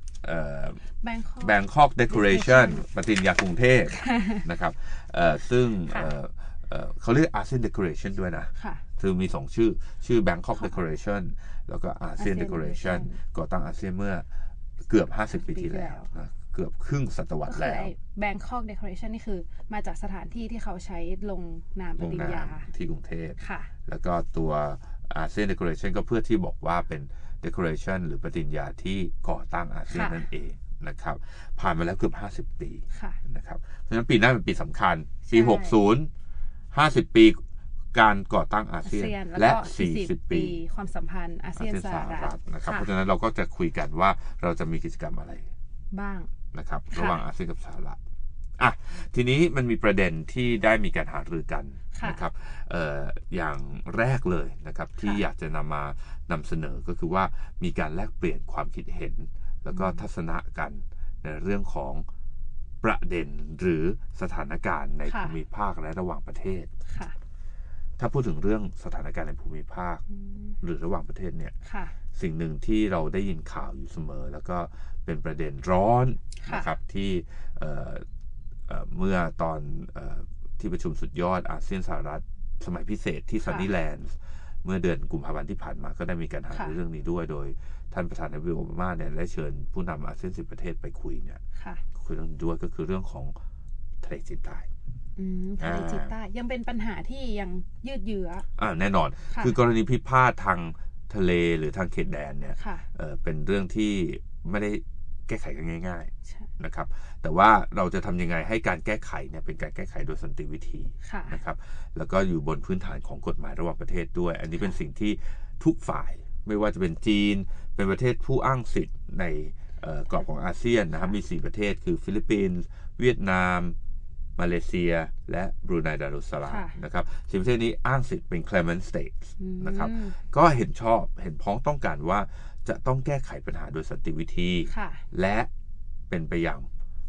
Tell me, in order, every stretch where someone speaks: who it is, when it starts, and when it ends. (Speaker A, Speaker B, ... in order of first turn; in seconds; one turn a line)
Speaker A: 0.2-0.8
Speaker B: 1.0-1.6
Speaker A: 1.4-14.2
Speaker B: 2.1-2.8
Speaker B: 4.0-4.4
Speaker B: 8.6-8.8
Speaker B: 12.2-13.2
Speaker A: 14.9-17.9
Speaker B: 15.3-16.1
Speaker B: 17.5-22.7
Speaker A: 22.0-36.1
Speaker B: 23.4-23.7
Speaker B: 29.9-30.2
Speaker B: 32.9-33.2
Speaker B: 35.3-35.8
Speaker A: 36.7-37.4
Speaker A: 37.9-40.6
Speaker B: 38.8-42.9
Speaker A: 41.5-45.5
Speaker B: 45.9-46.3
Speaker A: 46.5-48.0
Speaker B: 46.9-47.2
Speaker A: 48.6-62.0
Speaker B: 51.9-52.2
Speaker B: 59.7-60.0
Speaker A: 62.8-66.7
Speaker B: 65.0-65.3
Speaker B: 66.9-67.1
Speaker A: 68.0-70.0
Speaker B: 70.1-70.5
Speaker A: 70.6-71.5
Speaker B: 71.6-71.9
Speaker A: 72.1-78.0
Speaker B: 76.4-76.7
Speaker A: 78.7-91.4
Speaker B: 91.6-91.8
Speaker A: 91.9-93.3
Speaker A: 94.0-94.7
Speaker B: 95.2-98.4
Speaker A: 95.6-96.1
Speaker A: 98.6-123.8
Speaker B: 99.3-99.6
Speaker B: 102.6-102.8
Speaker B: 111.0-111.4
Speaker A: 124.4-135.5
Speaker B: 126.5-126.7
Speaker B: 129.4-130.2
Speaker B: 134.7-135.0
Speaker A: 136.1-136.7